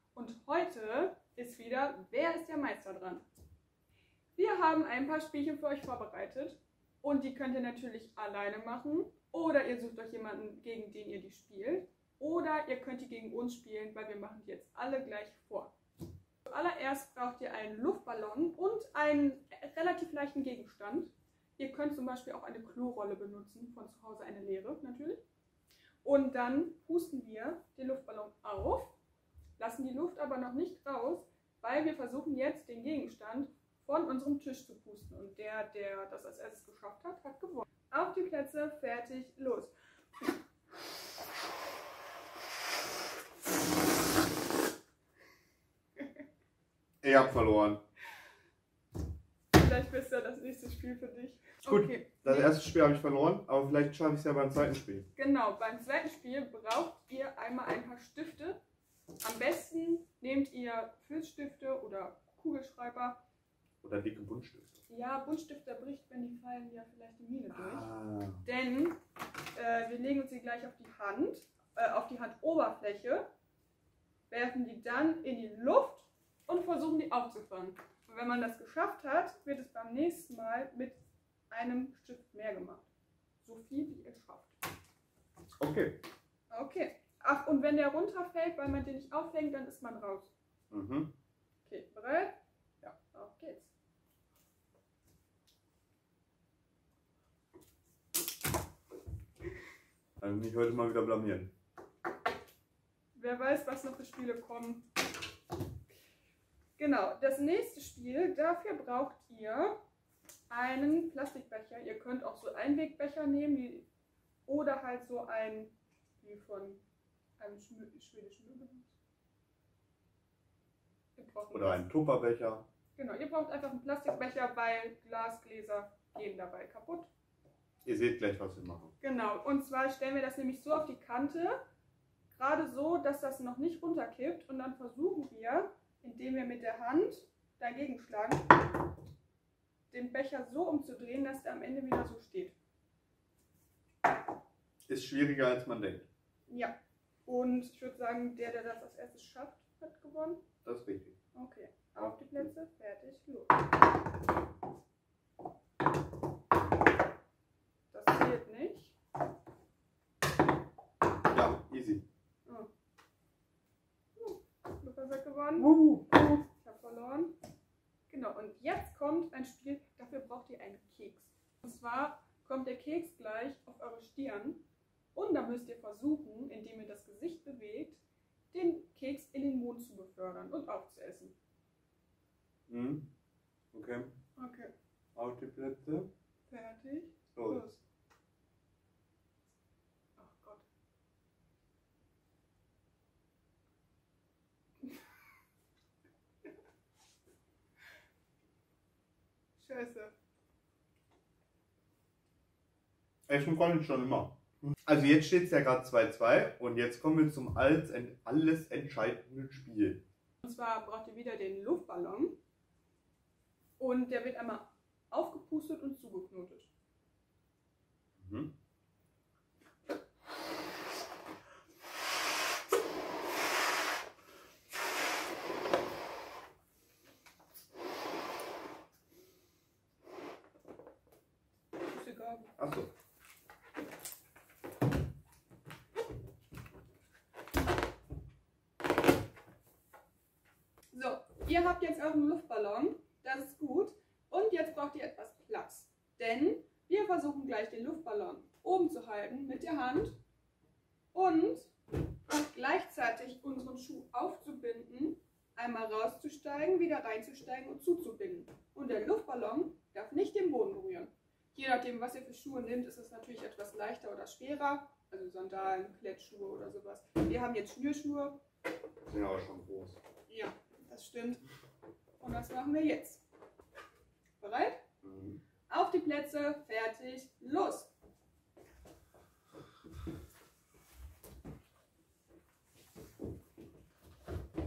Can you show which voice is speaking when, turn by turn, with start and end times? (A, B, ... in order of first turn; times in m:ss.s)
0:00.1-0:03.3 A
0:04.4-0:15.7 A
0:16.4-0:25.2 A
0:26.0-0:28.9 A
0:29.6-0:39.7 A
0:47.0-0:47.8 B
0:49.5-0:52.6 A
0:51.6-0:55.1 B
0:55.2-0:58.6 A
0:59.2-1:03.2 A
1:03.8-1:04.8 B
1:04.9-1:07.9 A
1:07.5-1:08.4 B
1:08.4-1:09.0 A
1:09.5-1:13.3 A
1:14.3-1:21.0 A
1:21.5-1:22.9 A
1:23.4-1:24.5 A
1:25.6-1:26.0 B
1:26.5-1:30.3 A
1:30.7-1:31.1 B
1:31.7-1:33.7 A
1:40.2-1:41.5 B
1:43.1-1:44.9 A
1:46.8-1:49.8 A
1:50.5-1:53.9 A
1:54.5-1:56.8 A
1:57.4-1:58.9 A
2:01.2-2:01.8 A
2:01.5-2:02.7 B
2:03.0-2:07.1 A
2:07.8-2:08.9 B
2:09.0-2:11.6 A
2:12.3-2:18.5 A
2:19.9-2:22.6 A
2:24.9-2:26.1 B
2:26.5-2:30.4 A
2:30.6-2:31.2 B
2:31.3-2:33.6 A
2:32.0-2:32.5 B
2:37.9-2:38.9 A
2:41.3-2:42.0 B
2:44.2-2:45.7 A
2:45.6-2:46.4 B
2:46.5-2:47.4 A
2:48.1-3:01.4 A
3:02.7-3:03.1 B
3:03.7-3:04.1 B
3:04.4-3:04.7 A
3:05.2-3:06.1 B
3:06.5-3:07.8 A
3:07.4-3:07.8 B
3:10.2-3:10.6 A
3:19.6-3:20.1 A
3:23.3-3:30.0 B
3:30.4-3:32.4 A
3:33.8-3:36.7 A
3:38.2-3:38.5 B
3:51.8-3:52.5 A
3:52.6-3:52.9 B
4:00.9-4:10.2 A
4:11.1-4:11.7 A
4:12.3-4:28.4 A
4:29.1-4:30.0 B
4:30.3-4:31.4 A
4:32.2-4:33.2 A
4:34.4-4:34.8 A
4:35.0-4:35.4 B
4:35.7-4:37.9 A